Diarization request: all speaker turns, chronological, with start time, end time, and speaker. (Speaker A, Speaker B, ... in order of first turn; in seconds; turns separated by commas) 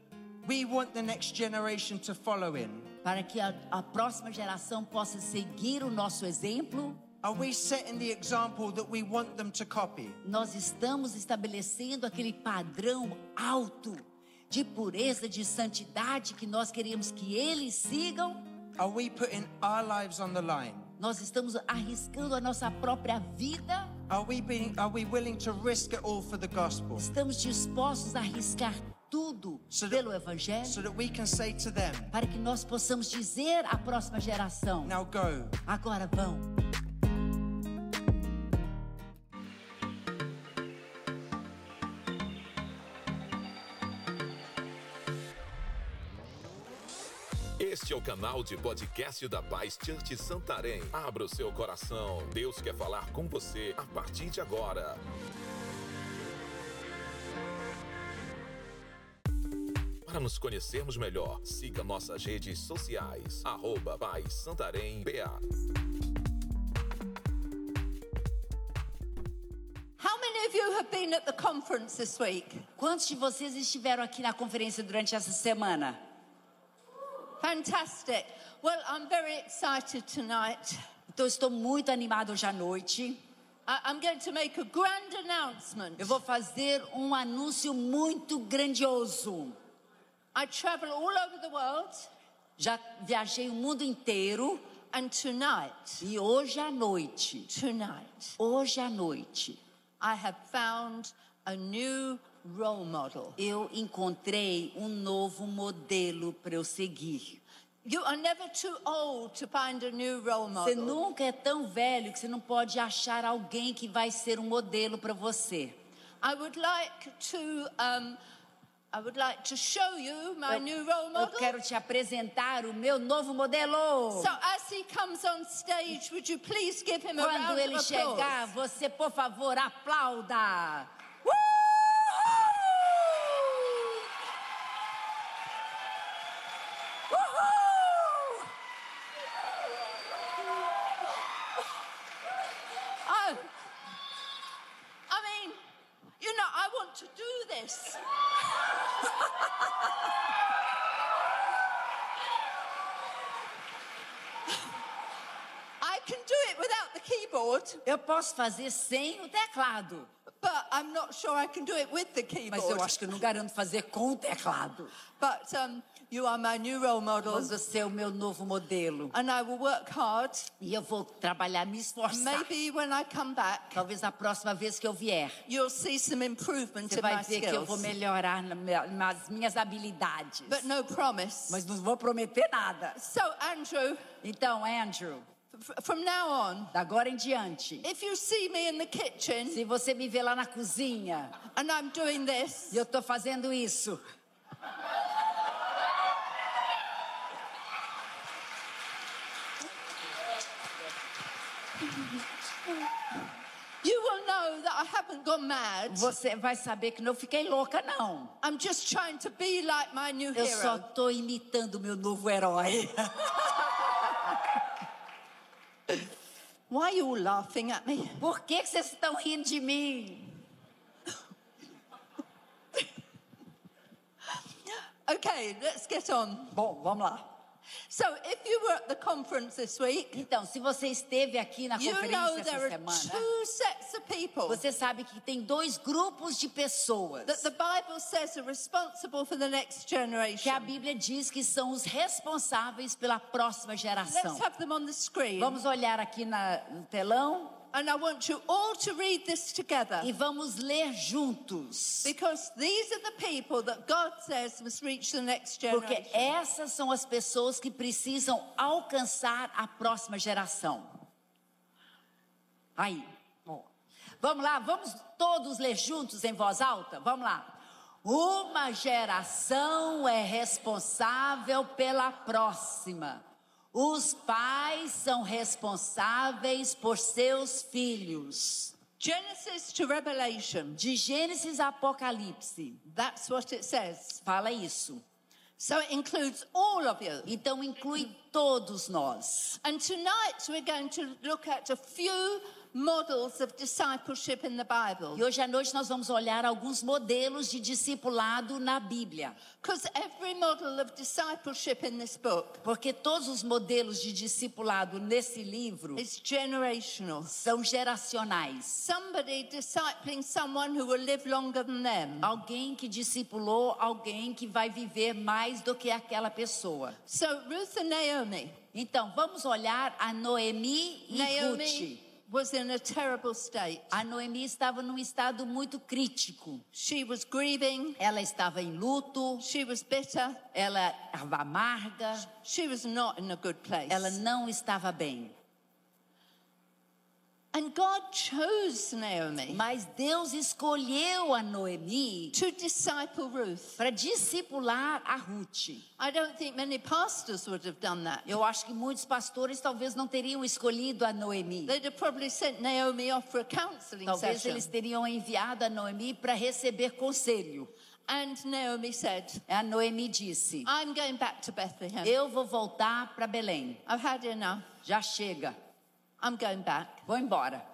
Speaker A: 0.4-2.9, Speaker B: 3.0-7.1, Speaker A: 7.2-10.2, Speaker B: 10.2-18.5, Speaker A: 18.8-20.9, Speaker B: 21.0-24.0, Speaker A: 24.1-27.1, Speaker B: 27.0-30.8, Speaker A: 29.7-30.1, Speaker A: 30.6-32.1, Speaker B: 32.1-35.0, Speaker A: 34.8-35.6, Speaker B: 35.6-36.6, Speaker C: 47.6-55.0, Speaker C: 60.1-65.4, Speaker D: 70.0-72.7, Speaker B: 72.8-76.0, Speaker D: 77.4-80.8, Speaker B: 81.1-83.2, Speaker D: 83.7-86.2, Speaker B: 86.0-89.6, Speaker D: 90.3-92.1, Speaker B: 92.6-94.7, Speaker D: 94.9-96.0, Speaker B: 96.0-97.5, Speaker D: 97.5-98.4, Speaker B: 98.4-99.6, Speaker D: 100.0-103.4, Speaker B: 103.4-107.4, Speaker D: 107.8-111.0, Speaker B: 110.6-115.8, Speaker D: 116.2-118.2, Speaker D: 118.9-121.6, Speaker B: 121.2-124.3, Speaker D: 124.1-128.5, Speaker B: 127.2-130.9, Speaker B: 132.1-133.3, Speaker B: 137.2-138.3, Speaker D: 143.1-143.5, Speaker D: 145.1-145.6, Speaker D: 146.2-148.0, Speaker D: 155.8-157.8, Speaker B: 157.8-160.1, Speaker D: 160.4-163.2, Speaker B: 162.5-164.9, Speaker D: 165.2-167.6, Speaker B: 167.2-169.1, Speaker D: 169.1-170.5, Speaker B: 170.6-172.5, Speaker D: 172.1-173.8, Speaker B: 173.7-175.4, Speaker D: 175.5-177.9, Speaker B: 176.9-180.7, Speaker D: 180.5-181.6, Speaker B: 181.5-183.0, Speaker D: 182.9-184.1, Speaker B: 184.2-185.3, Speaker D: 185.5-186.7, Speaker B: 186.7-187.9, Speaker D: 187.8-189.6, Speaker B: 189.5-191.4, Speaker D: 191.6-192.8, Speaker B: 192.7-194.0, Speaker D: 203.8-206.1, Speaker B: 205.9-208.3, Speaker D: 208.4-210.9, Speaker B: 210.3-214.5, Speaker D: 216.7-218.2, Speaker B: 218.2-220.4, Speaker D: 225.1-226.6, Speaker B: 226.5-227.3, Speaker D: 227.9-230.3, Speaker B: 230.1-233.2, Speaker D: 231.8-234.6, Speaker B: 234.5-237.5, Speaker D: 237.3-240.7, Speaker B: 240.4-244.4, Speaker D: 244.0-245.6, Speaker B: 245.4-247.6, Speaker D: 247.7-250.1, Speaker B: 250.0-252.1, Speaker D: 252.0-256.3, Speaker B: 255.7-261.0, Speaker B: 262.8-263.7, Speaker B: 264.2-278.8, Speaker D: 279.0-280.8, Speaker B: 280.8-282.8, Speaker D: 282.8-284.2, Speaker B: 284.2-285.0, Speaker D: 285.6-287.3, Speaker B: 287.3-289.6, Speaker D: 289.6-295.2, Speaker B: 295.1-299.4, Speaker D: 299.6-302.6, Speaker B: 302.6-306.0, Speaker D: 306.0-307.3, Speaker B: 307.3-308.9, Speaker D: 308.8-312.3, Speaker B: 312.2-317.0, Speaker D: 317.1-318.6, Speaker B: 318.7-322.0, Speaker D: 321.1-324.0, Speaker B: 323.9-326.6, Speaker D: 326.7-328.0, Speaker B: 328.0-329.4, Speaker D: 329.4-330.4, Speaker B: 330.5-332.3, Speaker D: 332.4-334.2, Speaker B: 333.9-335.4, Speaker D: 337.5-339.6, Speaker B: 339.5-342.4, Speaker D: 342.3-343.8, Speaker B: 343.8-345.9, Speaker D: 346.0-348.4, Speaker B: 348.3-351.8, Speaker D: 351.7-354.7, Speaker B: 354.1-357.7, Speaker D: 358.1-359.4, Speaker B: 359.5-360.7, Speaker D: 360.6-362.2, Speaker B: 362.0-363.8, Speaker D: 363.9-364.7, Speaker B: 364.8-365.6, Speaker D: 366.2-367.1, Speaker B: 367.1-367.6